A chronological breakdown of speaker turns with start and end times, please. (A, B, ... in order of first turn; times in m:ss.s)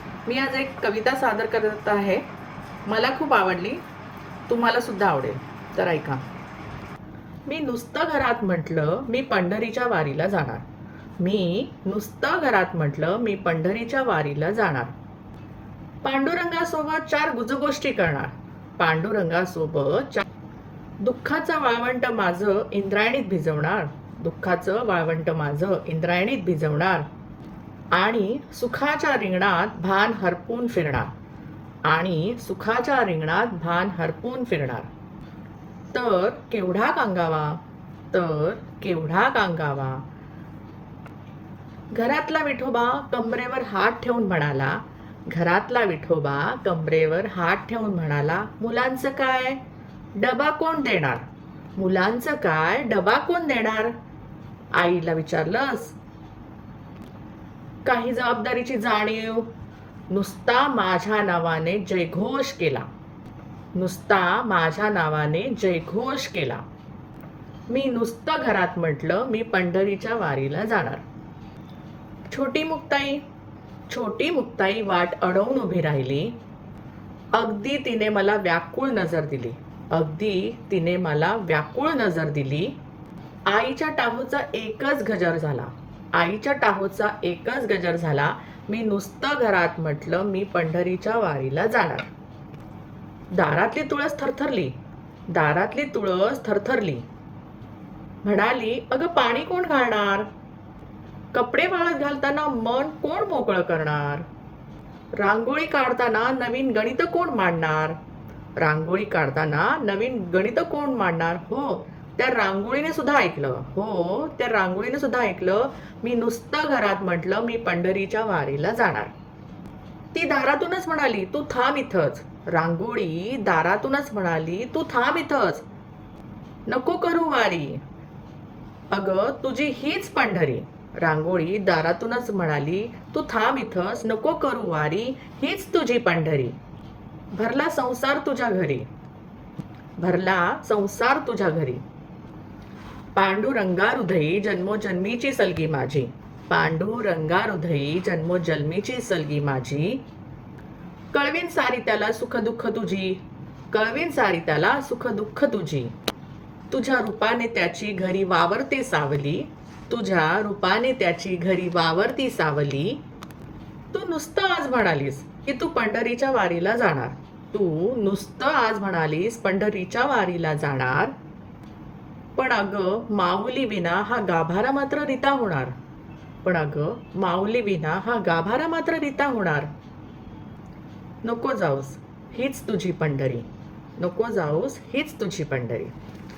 0:00.2-0:02.3 A
0:02.9-0:03.8 A
0:04.5-0:06.2 A
0:07.5-0:10.6 A
0:11.2-0:14.9 A
0:16.0-0:20.3 A
0:21.0-0:27.1 A
0:27.9-0:31.1 A
0:31.8-0:34.9 A
0:35.9-0:40.1 A
0:41.9-0:49.6 A
0:50.2-0:51.2 A
0:51.8-0:53.9 A
0:54.7-0:56.0 A
0:57.8-0:59.5 A
1:00.1-1:02.9 A
1:03.7-1:06.6 A
1:07.7-1:11.0 A
1:12.3-1:13.2 A
1:13.9-1:16.4 A
1:17.3-1:22.8 A
1:23.5-1:32.1 A
1:33.3-1:34.8 A
1:35.3-1:37.1 A
1:38.2-1:40.3 A
1:41.3-1:44.2 A
1:45.1-1:48.0 A
1:48.6-1:59.2 A
2:00.1-2:05.7 A
2:06.7-2:07.8 A
2:08.9-2:16.6 A
2:17.3-2:18.9 A
2:20.0-2:21.8 A
2:23.2-2:30.0 A
2:31.1-2:35.9 A
2:36.7-2:43.0 A
2:43.9-2:51.1 A
2:52.4-2:55.7 A
2:56.4-2:59.7 A
3:01.2-3:05.9 A